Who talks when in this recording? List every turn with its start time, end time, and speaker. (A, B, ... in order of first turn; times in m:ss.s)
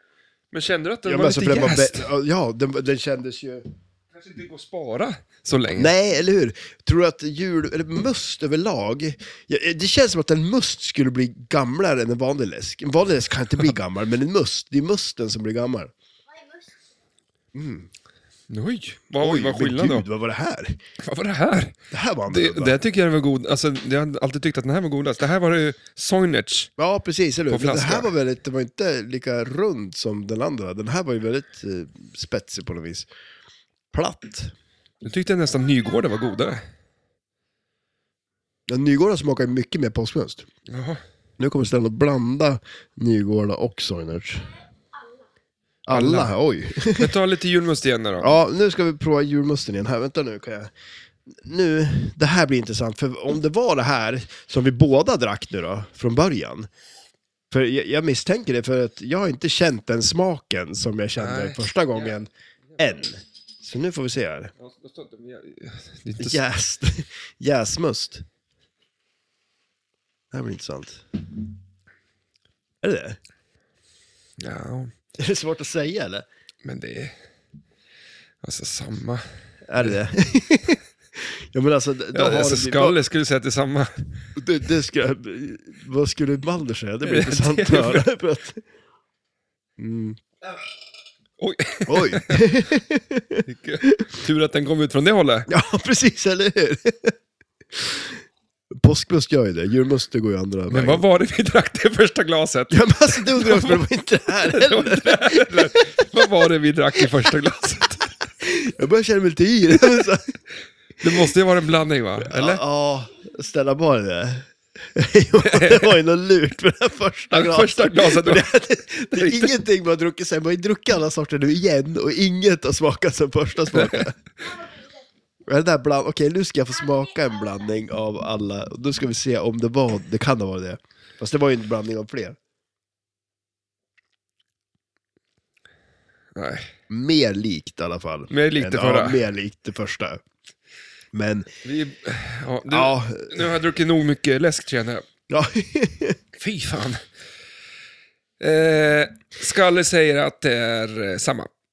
0:00.5-0:02.1 A
0:01.0-0:03.6 B
0:04.1-0:05.9 A
0:05.8-0:15.9 B
0:16.3-0:16.9 C
0:17.5-0:17.9 B
0:18.5-0:20.0 A
0:19.2-0:20.8 B
0:21.0-0:21.7 A
0:21.9-0:22.8 B
0:22.3-0:26.7 A
0:26.8-0:33.1 B
0:27.5-0:28.1 A
0:33.9-0:34.5 B
0:35.0-0:36.6 A
0:35.7-0:36.5 C
0:38.7-0:40.4 B
0:40.7-0:41.0 A
0:41.4-0:44.5 B
0:44.9-0:45.2 C
0:45.8-0:47.1 B
0:45.9-0:46.3 A
0:46.9-0:48.3 A
0:48.2-0:50.7 B
0:51.4-0:56.7 B
0:57.5-1:04.5 B
1:01.2-1:02.1 A
1:04.6-1:06.4 A
1:06.2-1:08.2 B
1:10.3-1:11.0 B
1:12.8-1:13.2 B
1:14.4-1:14.9 A
1:15.2-1:16.2 B
1:16.6-1:17.1 A
1:18.4-1:19.2 A
1:19.7-1:23.0 B
1:22.1-1:24.1 A
1:24.4-1:28.6 B
1:27.0-1:28.1 A
1:29.8-1:30.2 B
1:31.4-1:32.5 A
1:31.9-1:34.0 B
1:33.4-1:35.5 A
1:35.5-1:37.1 B
1:37.7-1:38.2 B
1:38.8-1:41.0 B
1:40.7-1:43.8 A
1:42.7-1:45.7 B
1:44.4-1:48.1 A
1:48.4-1:50.3 B
1:51.0-1:52.6 A
1:52.2-2:04.1 B
1:55.4-1:55.9 A
1:57.3-1:58.4 A
1:59.1-1:59.5 A
2:03.7-2:04.1 A
2:04.4-2:05.1 C
2:05.4-2:12.4 B
2:06.8-2:07.6 C
2:16.4-2:16.7 A
2:16.9-2:20.2 B
2:18.3-2:19.2 A
2:21.1-2:21.5 B
2:21.6-2:25.1 A
2:22.7-2:23.5 B
2:25.3-2:26.2 B
2:26.4-2:27.0 A
2:28.4-2:31.5 A